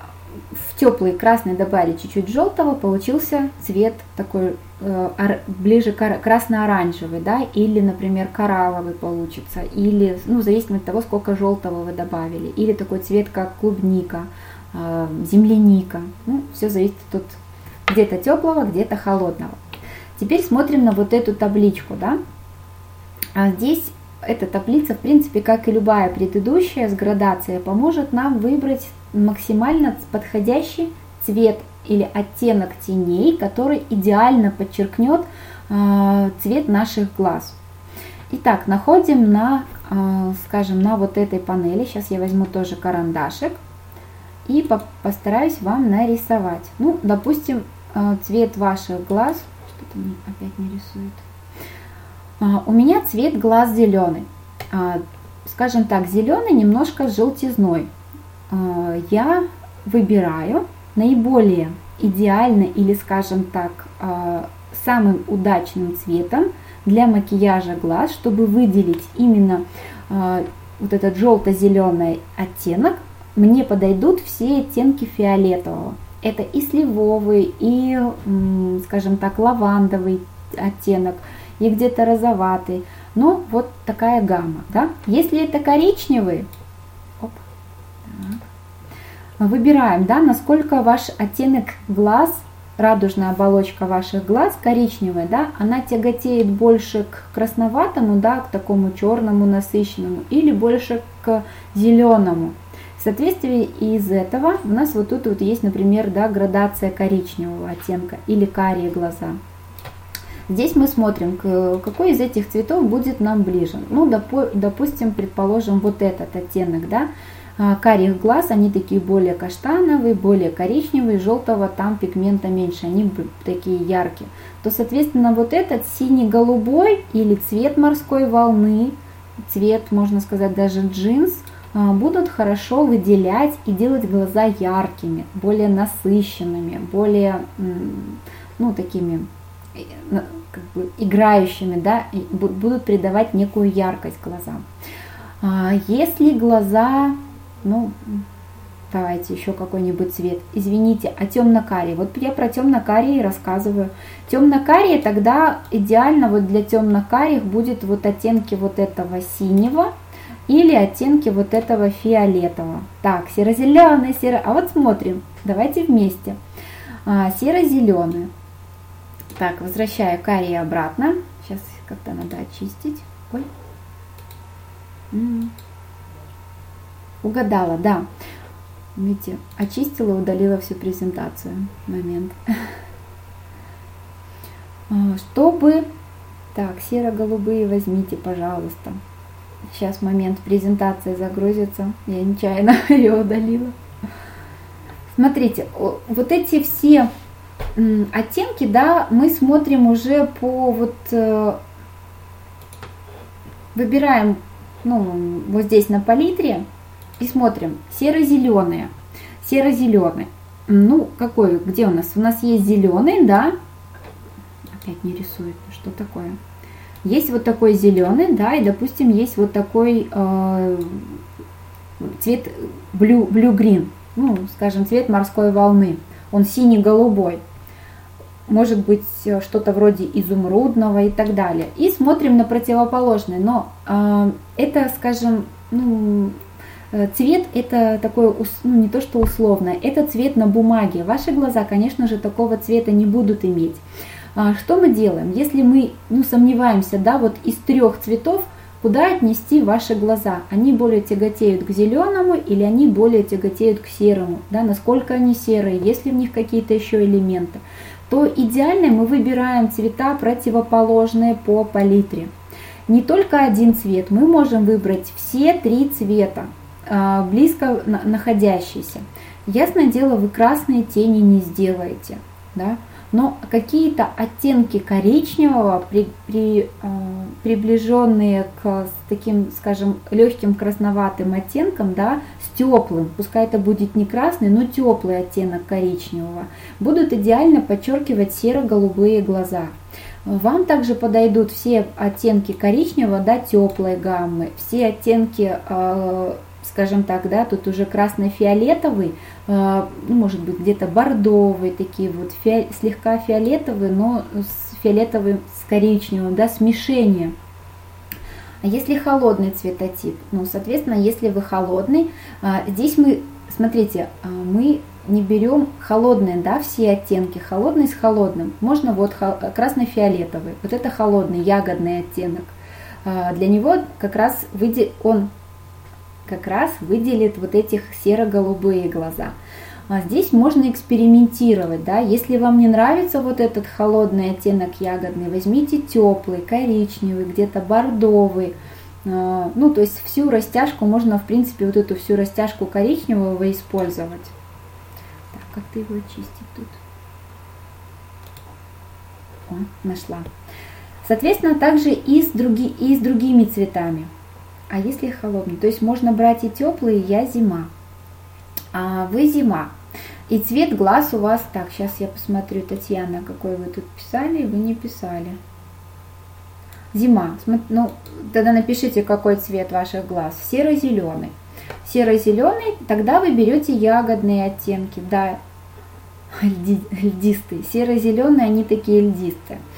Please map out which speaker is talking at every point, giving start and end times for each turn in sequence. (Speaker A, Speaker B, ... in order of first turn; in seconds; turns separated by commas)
Speaker A: 0.5-19.6, Speaker A: 20.2-22.2, Speaker A: 23.3-37.6, Speaker A: 38.3-43.6, Speaker A: 44.5-51.2, Speaker A: 52.4-57.9, Speaker A: 58.5-86.5, Speaker A: 88.0-88.4, Speaker A: 89.4-109.4, Speaker A: 110.5-144.6, Speaker A: 145.4-148.2, Speaker A: 148.9-159.9, Speaker A: 160.5-166.4, Speaker A: 167.0-168.3, Speaker A: 169.3-173.5, Speaker A: 175.1-175.5, Speaker A: 177.2-178.1, Speaker A: 178.9-182.4, Speaker A: 184.9-185.9, Speaker A: 186.5-189.0, Speaker A: 189.7-193.7, Speaker A: 195.2-197.1, Speaker A: 197.8-201.6, Speaker A: 203.7-206.6, Speaker A: 207.2-213.5, Speaker A: 214.8-216.4, Speaker A: 217.0-221.2, Speaker A: 222.0-227.4, Speaker A: 228.5-236.4, Speaker A: 236.9-243.8, Speaker A: 244.3-262.3, Speaker A: 262.9-289.7, Speaker A: 290.2-307.3, Speaker A: 308.6-322.5, Speaker A: 323.0-325.3, Speaker A: 326.2-329.3, Speaker A: 329.9-344.3, Speaker A: 345.3-346.8, Speaker A: 349.5-350.3, Speaker A: 351.0-354.1, Speaker A: 354.7-357.7, Speaker A: 358.7-359.7, Speaker A: 360.3-365.4, Speaker A: 366.9-371.3, Speaker A: 371.8-375.4, Speaker A: 376.3-379.6